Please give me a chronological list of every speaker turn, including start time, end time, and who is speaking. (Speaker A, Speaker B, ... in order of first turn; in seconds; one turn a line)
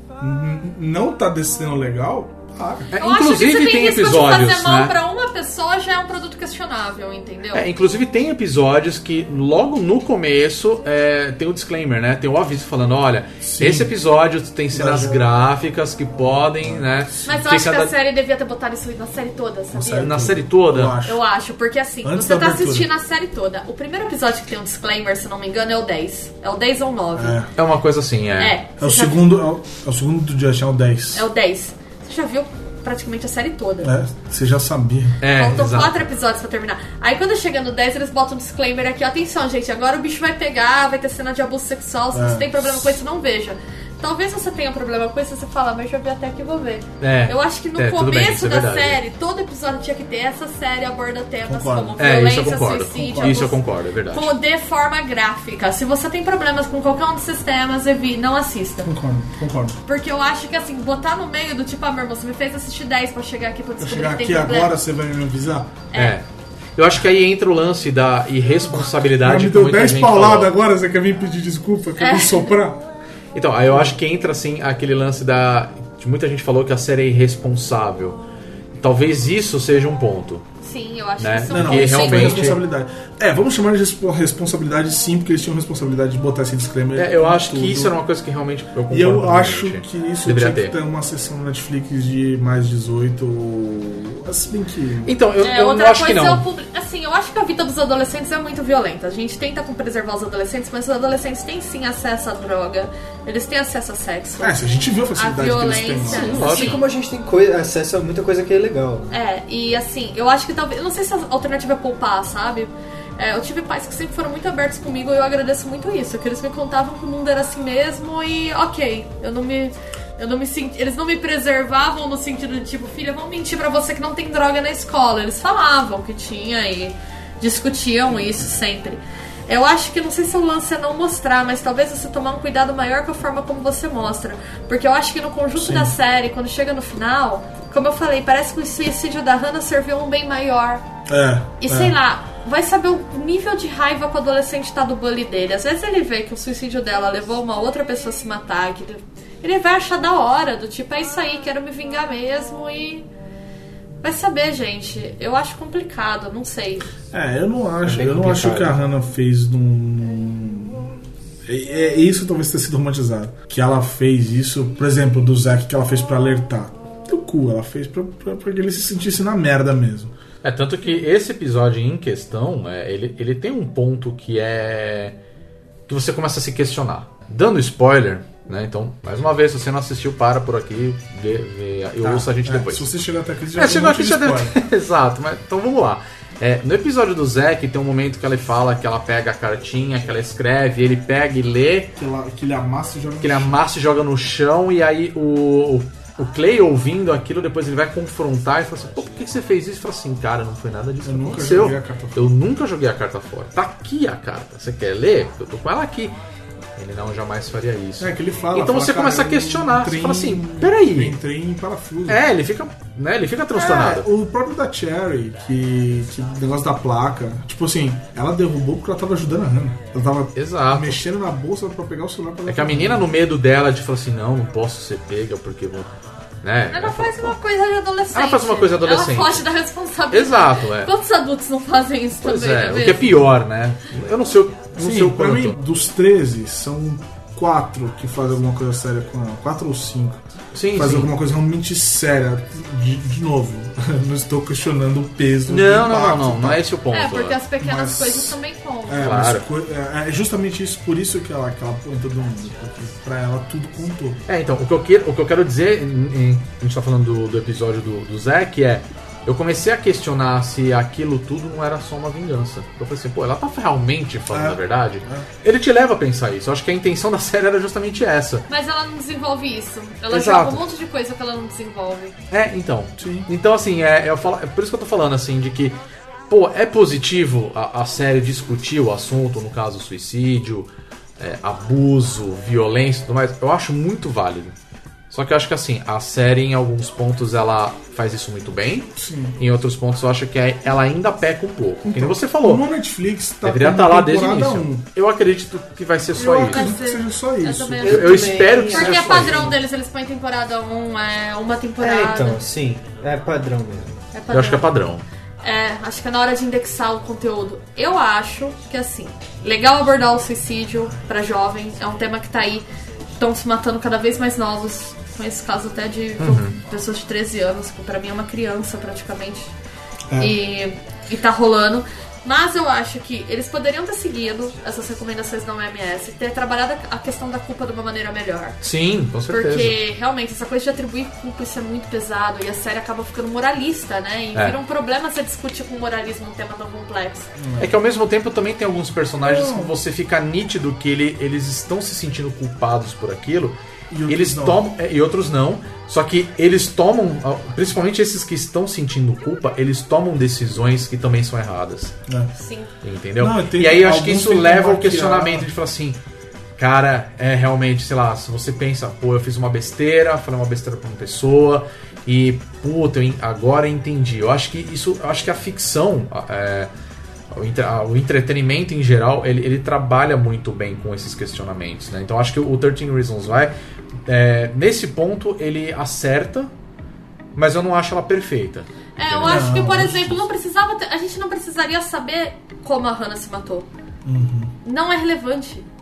Speaker A: 0.2-2.9
Speaker B: 2.9-5.0
Speaker C: 3.0-7.7
Speaker B: 7.5-17.9
Speaker A: 13.4-13.9
Speaker A: 14.7-15.2
Speaker A: 16.6-17.1
Speaker C: 17.2-20.2
Speaker A: 19.7-21.2
Speaker B: 20.0-21.0
Speaker C: 21.0-27.4
Speaker A: 22.0-22.9
Speaker A: 27.1-27.5
Speaker B: 27.6-28.6
Speaker C: 28.4-29.2
Speaker A: 28.8-31.3
Speaker C: 31.1-33.9
Speaker A: 33.8-35.6
Speaker B: 35.2-36.1
Speaker C: 35.3-58.9
Speaker A: 42.1-43.0
Speaker B: 47.0-49.0
Speaker A: 51.5-52.0
Speaker B: 52.0-54.3
Speaker A: 52.9-53.5
Speaker A: 58.8-59.8
Speaker C: 59.8-64.7
Speaker A: 63.8-65.8
Speaker C: 65.9-66.2
Speaker B: 65.9-66.2
Speaker B: 66.8-70.5
Speaker A: 68.7-72.8
Speaker C: 72.0-72.5
Speaker B: 73.3-78.2
Speaker A: 73.7-73.9
Speaker B: 78.8-80.4
Speaker C: 80.6-82.5
Speaker B: 81.2-82.6
Speaker A: 81.5-88.0
Speaker B: 86.9-90.8
Speaker A: 88.9-95.1
Speaker B: 95.0-96.4
Speaker C: 95.4-104.6
Speaker A: 104.4-106.5
Speaker C: 105.2-106.8
Speaker D: 106.1-109.1
Speaker B: 106.1-106.8
Speaker C: 109.1-140.8
Speaker A: 135.6-135.9
Speaker A: 141.1-142.0
Speaker C: 141.6-153.1
Speaker C: 154.0-156.9
Speaker A: 157.1-160.9
Speaker D: 157.8-158.8
Speaker A: 161.4-170.1
Speaker B: 170.4-175.2
Speaker B: 175.9-182.9
Speaker A: 182.0-184.6
Speaker B: 183.5-191.9
Speaker A: 191.9-193.6
Speaker B: 193.2-206.1
Speaker A: 201.0-202.3
Speaker B: 206.8-211.2
Speaker A: 208.0-212.2
Speaker B: 212.1-214.1
Speaker A: 213.5-223.1
Speaker B: 220.3-221.0
Speaker B: 222.5-225.9
Speaker B: 226.4-227.3
Speaker C: 226.7-233.3
Speaker B: 228.1-229.5
Speaker B: 230.1-230.9
Speaker B: 232.2-235.6
Speaker A: 234.7-240.2
Speaker B: 240.5-241.1
Speaker A: 240.7-246.6
Speaker B: 245.5-247.4
Speaker C: 246.9-249.1
Speaker A: 247.6-254.2
Speaker B: 249.0-249.4
Speaker B: 254.3-268.4
Speaker A: 264.3-265.3
Speaker C: 268.5-272.1
Speaker B: 270.1-270.6
Speaker B: 272.3-275.8
Speaker A: 273.0-273.3
Speaker B: 276.3-284.5
Speaker B: 285.1-292.6
Speaker A: 288.9-289.4
Speaker A: 291.8-294.9
Speaker B: 293.4-296.7
Speaker C: 296.1-302.4
Speaker A: 296.4-298.1
Speaker D: 297.8-299.5
Speaker B: 297.9-299.5
Speaker D: 301.8-304.0
Speaker C: 304.1-304.7
Speaker B: 304.3-305.0
Speaker C: 305.4-312.6
Speaker C: 313.2-319.5
Speaker B: 316.2-316.6
Speaker C: 320.2-328.6
Speaker B: 328.6-329.8
Speaker C: 329.3-337.3
Speaker A: 337.4-337.8
Speaker B: 337.6-343.6
Speaker A: 339.2-339.8
Speaker A: 343.9-344.6
Speaker B: 344.1-351.9
Speaker A: 352.1-352.3
Speaker C: 352.3-352.7
Speaker B: 352.8-356.0
Speaker A: 353.2-355.5
Speaker B: 356.6-366.7
Speaker B: 367.3-373.5
Speaker B: 374.1-376.5
Speaker B: 377.3-379.5
Speaker C: 379.0-383.7
Speaker A: 379.2-380.2
Speaker A: 384.0-384.5
Speaker C: 384.6-385.7